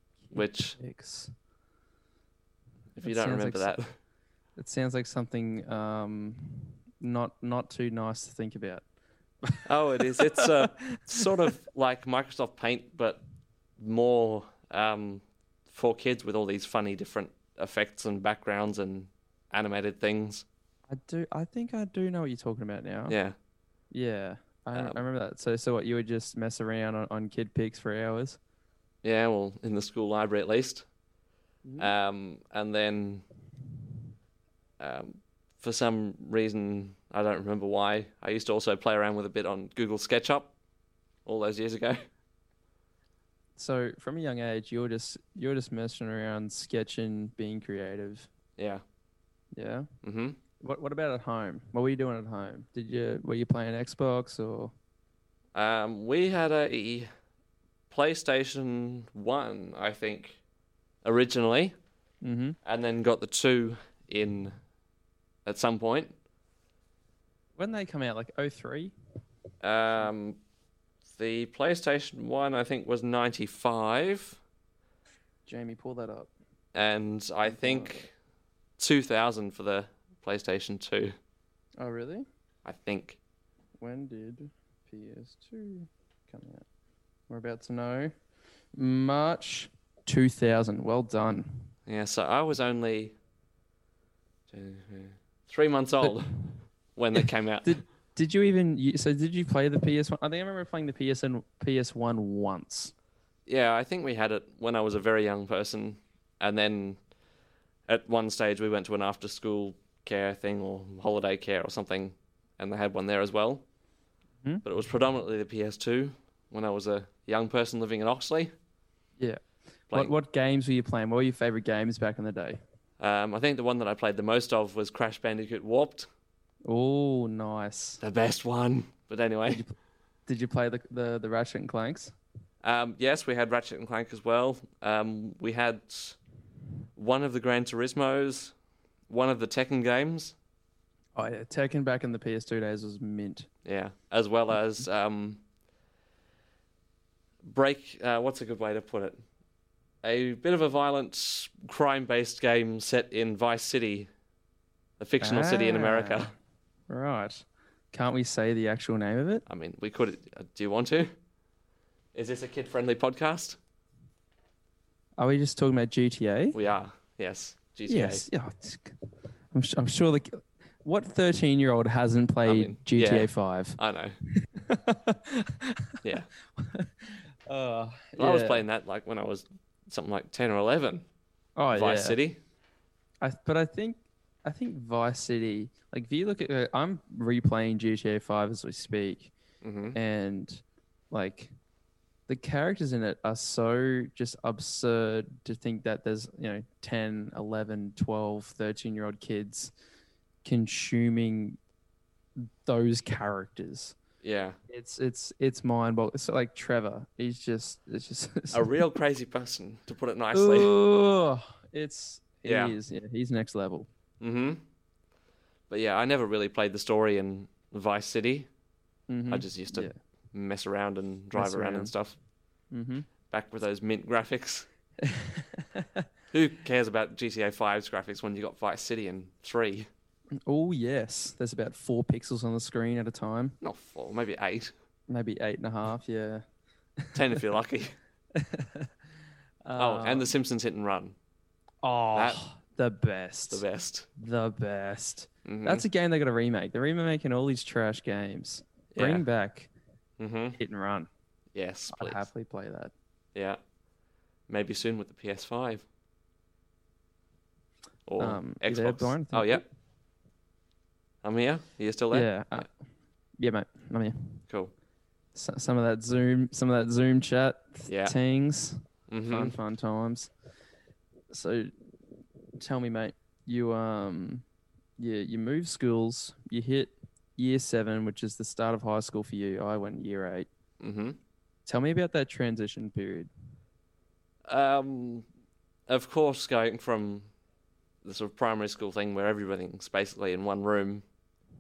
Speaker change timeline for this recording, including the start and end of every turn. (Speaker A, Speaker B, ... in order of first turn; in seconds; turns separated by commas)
Speaker A: 0.3-1.3, Speaker B: 0.3-0.8, Speaker B: 3.0-3.9, Speaker A: 3.0-3.8, Speaker A: 4.6-8.8, Speaker A: 9.5-11.0, Speaker B: 9.7-13.2, Speaker B: 13.8-20.5, Speaker A: 20.9-23.2, Speaker B: 23.1-23.4, Speaker A: 23.9-28.4, Speaker B: 24.7-25.0, Speaker B: 29.0-30.9, Speaker A: 31.6-31.9, Speaker B: 31.8-33.2, Speaker B: 34.8-40.5, Speaker B: 41.2-42.0, Speaker A: 43.6-48.3, Speaker B: 48.6-48.8, Speaker A: 49.5-49.9, Speaker B: 50.0-50.4, Speaker A: 50.6-54.7, Speaker B: 55.5-57.1, Speaker B: 57.9-60.4, Speaker B: 61.0-61.8, Speaker A: 62.2-62.6, Speaker B: 62.6-64.5, Speaker B: 65.5-66.2, Speaker A: 67.6-68.9, Speaker B: 69.6-70.4, Speaker B: 71.1-74.4, Speaker A: 75.5-76.3, Speaker B: 76.8-78.1, Speaker A: 77.5-78.0, Speaker B: 78.8-81.2, Speaker A: 81.8-82.2, Speaker B: 82.7-83.2, Speaker A: 83.8-86.7, Speaker A: 87.3-88.1, Speaker A: 88.8-91.7, Speaker B: 91.9-93.2, Speaker B: 94.5-96.4, Speaker B: 97.0-97.8, Speaker A: 97.6-102.9, Speaker B: 103.5-107.0, Speaker B: 107.9-113.6, Speaker B: 114.6-118.5, Speaker A: 119.9-122.6, Speaker B: 123.0-126.1, Speaker A: 126.7-128.0, Speaker B: 128.0-129.7, Speaker A: 129.5-129.7, Speaker A: 130.3-132.2, Speaker B: 132.6-136.2, Speaker B: 137.0-138.5, Speaker B: 139.1-140.3, Speaker A: 141.2-143.5, Speaker B: 143.7-145.4, Speaker B: 147.4-149.2, Speaker B: 150.0-154.1, Speaker B: 155.0-156.3, Speaker A: 155.2-156.3, Speaker A: 156.9-159.4, Speaker B: 159.5-161.1, Speaker B: 162.1-163.6, Speaker A: 165.2-166.6, Speaker B: 166.5-168.3, Speaker A: 167.9-169.0, Speaker A: 169.5-173.8, Speaker B: 172.4-174.2, Speaker A: 174.4-176.0, Speaker B: 176.0-176.3, Speaker A: 176.6-178.6, Speaker B: 178.2-181.1, Speaker A: 181.6-182.2, Speaker B: 181.7-182.4, Speaker A: 183.2-189.3, Speaker B: 189.6-190.0, Speaker A: 189.9-191.5, Speaker A: 192.3-199.7, Speaker A: 200.4-201.6, Speaker A: 202.4-204.0, Speaker B: 204.2-204.6, Speaker A: 204.7-208.7, Speaker B: 208.5-210.7, Speaker A: 210.3-213.9, Speaker B: 212.4-212.8, Speaker B: 214.2-214.6, Speaker B: 215.7-218.5, Speaker A: 219.1-220.0, Speaker B: 219.3-222.2, Speaker A: 221.3-221.9, Speaker A: 222.7-223.1, Speaker B: 223.3-224.7, Speaker A: 225.0-225.9, Speaker B: 226.3-229.9, Speaker A: 230.5-233.6, Speaker B: 233.6-234.7, Speaker A: 235.1-236.4, Speaker B: 237.1-237.9, Speaker A: 238.4-238.9, Speaker A: 239.7-240.3, Speaker B: 239.8-241.2, Speaker A: 241.8-243.6, Speaker B: 242.2-242.4, Speaker B: 243.5-244.1, Speaker A: 244.2-249.7, Speaker B: 245.4-245.8, Speaker B: 248.9-249.2, Speaker B: 250.2-250.6, Speaker A: 250.6-251.1, Speaker B: 251.6-252.3, Speaker A: 251.9-252.9, Speaker B: 253.3-253.6, Speaker B: 254.5-255.8, Speaker B: 258.1-259.6, Speaker A: 258.2-259.6, Speaker B: 261.2-262.3, Speaker A: 262.1-262.7, Speaker A: 263.4-264.4, Speaker A: 265.4-270.3, Speaker B: 267.9-268.1, Speaker B: 269.1-269.6, Speaker A: 271.3-271.7, Speaker A: 272.6-274.4, Speaker A: 275.0-280.5, Speaker B: 280.8-281.2, Speaker A: 281.7-283.3, Speaker B: 284.5-285.3, Speaker B: 285.9-287.3, Speaker B: 288.0-291.0